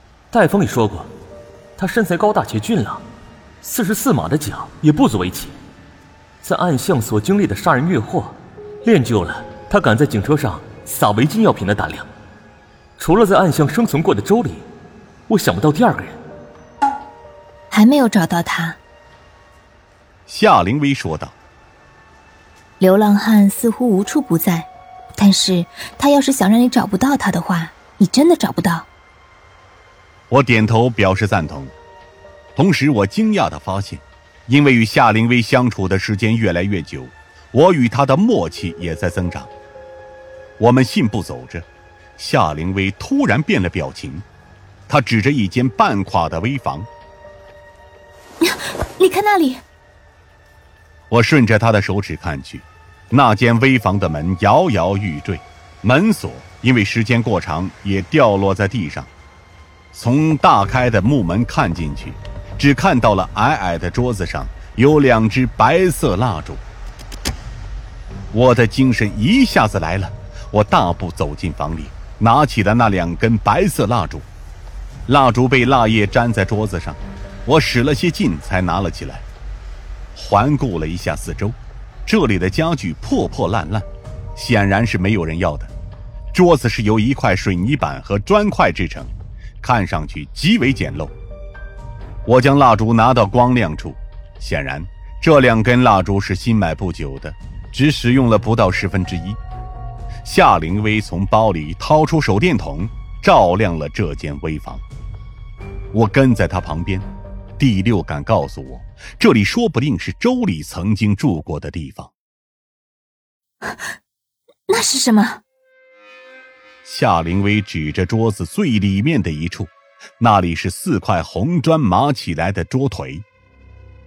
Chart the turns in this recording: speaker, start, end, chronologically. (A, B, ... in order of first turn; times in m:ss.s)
0:00.3-0:01.1 A
0:01.8-0:03.0 A
0:03.6-0:05.6 A
0:06.4-0:12.1 A
0:13.0-0:14.6 A
0:15.3-0:16.2 A
0:17.7-0:18.8 B
0:20.3-0:21.4 C
0:22.8-0:28.9 B
0:30.3-0:31.7 C
0:32.6-0:39.5 C
0:40.6-0:41.7 C
0:42.2-0:44.2 C
0:44.9-0:46.9 C
0:48.4-0:49.6 B
0:51.1-0:59.1 C
0:59.9-1:06.6 C
1:08.3-1:14.3 C
1:15.1-1:19.2 C
1:20.2-1:25.7 C
1:26.3-1:29.1 C
1:29.6-1:31.1 C
1:32.3-1:39.4 C
1:40.2-1:44.8 C
1:45.9-1:47.1 C
1:47.6-1:52.1 C
1:54.7-1:55.4 B
1:56.8-2:03.2 C